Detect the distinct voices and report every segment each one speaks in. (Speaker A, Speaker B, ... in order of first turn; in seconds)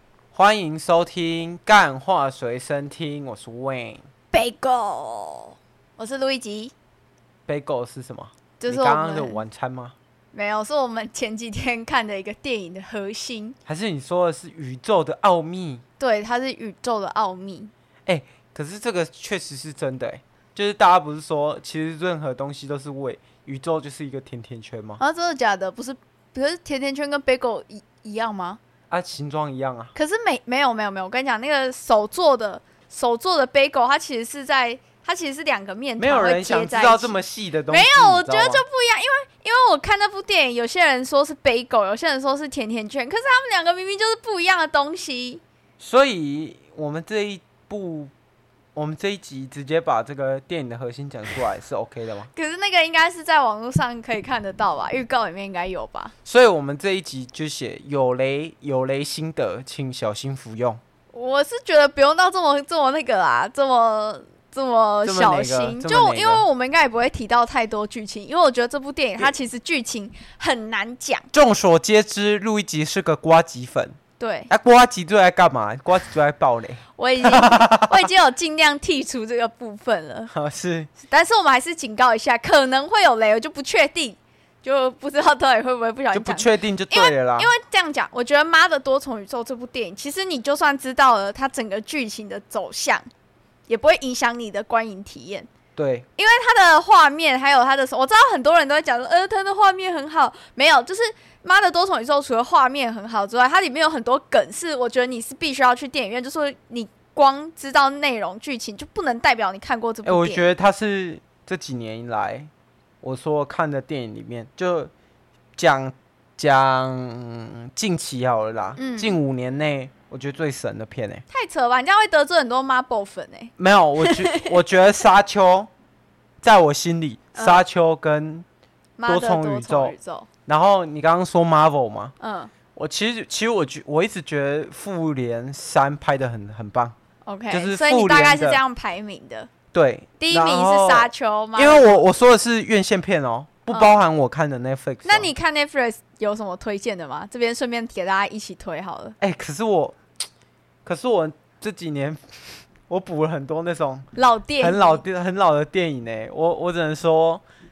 Speaker A: 0.3-4.0, 7.5-9.9, 13.7-15.8, 18.1-25.0, 28.9-29.9, 36.0-38.6, 45.8-48.1, 48.8-52.3, 56.3-60.8, 65.0-66.4, 71.3-74.0, 74.5-78.1, 80.3-80.9, 86.1-87.5, 95.8-96.1, 110.0-112.5, 113.0-114.9, 115.6-121.2, 123.6-125.7, 126.4-128.4, 129.1-129.9, 130.5-132.1, 132.8-136.9, 137.5-138.6, 139.7-145.3, 149.2-150.0, 150.8-154.1, 154.6-157.4
Speaker B: 4.3-6.7, 8.6-9.4, 10.3-13.6, 16.0-17.7, 25.0-28.6, 29.9-37.1, 37.7-45.4, 52.3-56.1, 61.1-71.3, 74.2-74.5, 77.0-80.3, 81.0-93.1, 93.7-95.5, 96.2-110.5, 118.8-119.2, 121.3-124.5, 127.3-127.6, 129.0-130.3, 132.2-132.5, 137.2-139.5, 140.2-141.9, 143.7-144.0, 145.1-149.2, 154.2-155.0